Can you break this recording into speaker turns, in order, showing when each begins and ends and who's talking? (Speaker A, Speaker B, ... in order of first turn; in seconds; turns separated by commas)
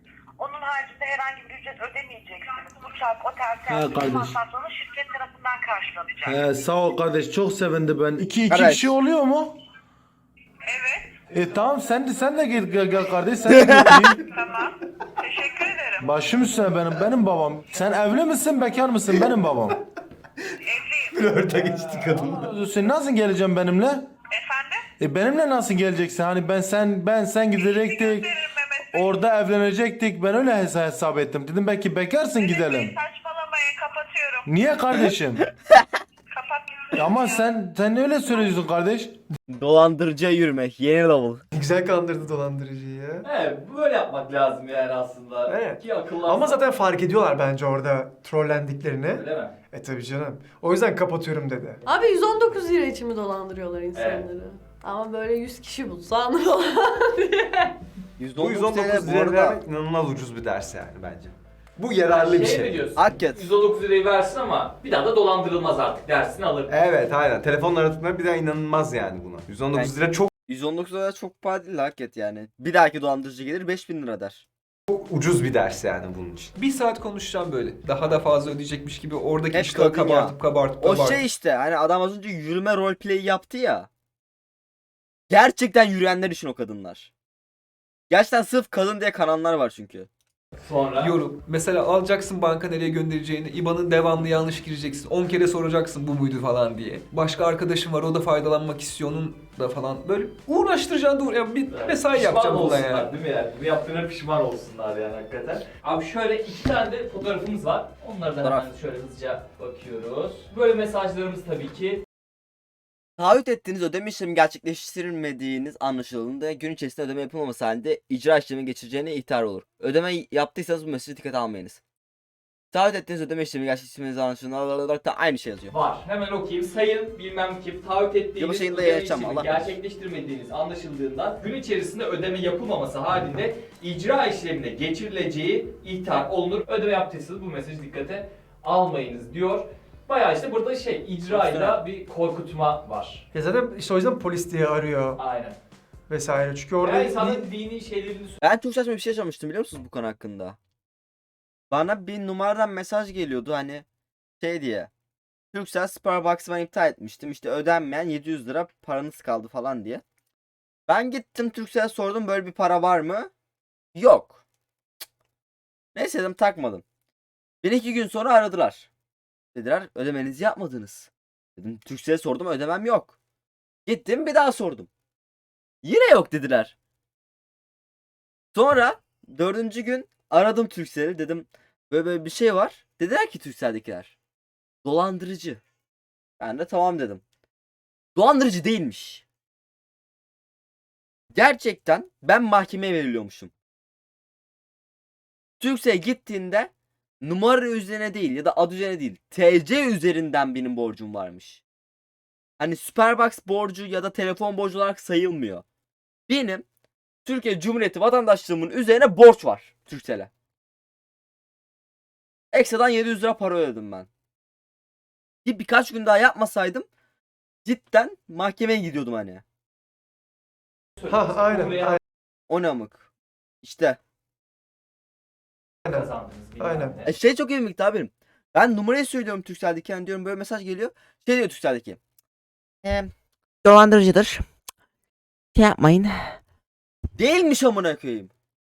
Speaker A: 0.4-6.4, Speaker B: 3.7-4.4, Speaker B: 6.2-9.5, Speaker C: 8.5-8.9, Speaker A: 10.7-11.1, Speaker B: 11.3-14.2, Speaker C: 13.5-14.0, Speaker A: 14.3-16.0, Speaker B: 16.0-19.7, Speaker A: 20.6-21.2, Speaker D: 21.1-22.4, Speaker E: 21.2-22.4, Speaker B: 22.1-24.0, Speaker A: 24.3-24.8, Speaker B: 25.0-28.3, Speaker A: 27.6-29.2, Speaker B: 28.9-32.9, Speaker A: 32.4-34.5, Speaker B: 34.5-35.5, Speaker A: 36.3-37.4, Speaker B: 36.9-39.1, Speaker C: 39.5-41.4, Speaker E: 41.5-43.2, Speaker F: 43.2-46.6, Speaker E: 45.5-51.8, Speaker F: 49.1-49.5, Speaker G: 51.9-57.7, Speaker F: 53.9-54.2, Speaker C: 58.2-59.5, Speaker D: 58.4-62.9, Speaker F: 62.1-66.8, Speaker C: 63.0-63.4, Speaker D: 66.7-70.3, Speaker C: 70.5-74.4, Speaker D: 74.9-76.5, Speaker H: 76.5-81.2, Speaker C: 79.5-83.9, Speaker C: 85.3-87.1, Speaker C: 88.1-90.1, Speaker F: 90.6-91.1, Speaker H: 91.0-103.1, Speaker F: 101.7-112.0, Speaker C: 108.4-108.7, Speaker C: 113.2-121.8, Speaker C: 122.7-125.7, Speaker F: 125.7-143.2, Speaker C: 128.4-129.7, Speaker C: 141.3-141.8, Speaker E: 143.3-145.2, Speaker F: 145.2-145.6, Speaker E: 146.1-147.4, Speaker F: 146.8-148.4, Speaker C: 148.4-150.6, Speaker C: 151.7-153.8, Speaker C: 154.4-154.9, Speaker C: 155.5-160.0, Speaker C: 160.9-163.3, Speaker C: 163.9-164.4, Speaker C: 165.9-166.8, Speaker C: 167.6-168.9, Speaker C: 169.5-173.1, Speaker C: 173.8-174.9, Speaker C: 175.8-176.7, Speaker C: 178.5-184.1, Speaker C: 184.8-185.6, Speaker C: 186.4-187.2, Speaker C: 188.1-189.2, Speaker C: 191.3-193.5, Speaker C: 195.6-196.7, Speaker C: 197.2-201.6, Speaker C: 202.6-205.6, Speaker C: 206.3-206.6, Speaker C: 207.2-210.3, Speaker C: 212.5-214.1, Speaker C: 215.4-216.9, Speaker C: 217.6-219.4, Speaker F: 221.0-222.0, Speaker E: 221.1-222.0, Speaker C: 222.5-223.1, Speaker C: 223.6-224.0, Speaker F: 225.9-227.1, Speaker E: 226.6-227.0, Speaker C: 227.1-232.0, Speaker C: 232.8-233.1, Speaker C: 233.6-234.4, Speaker C: 235.6-236.1, Speaker C: 237.2-238.3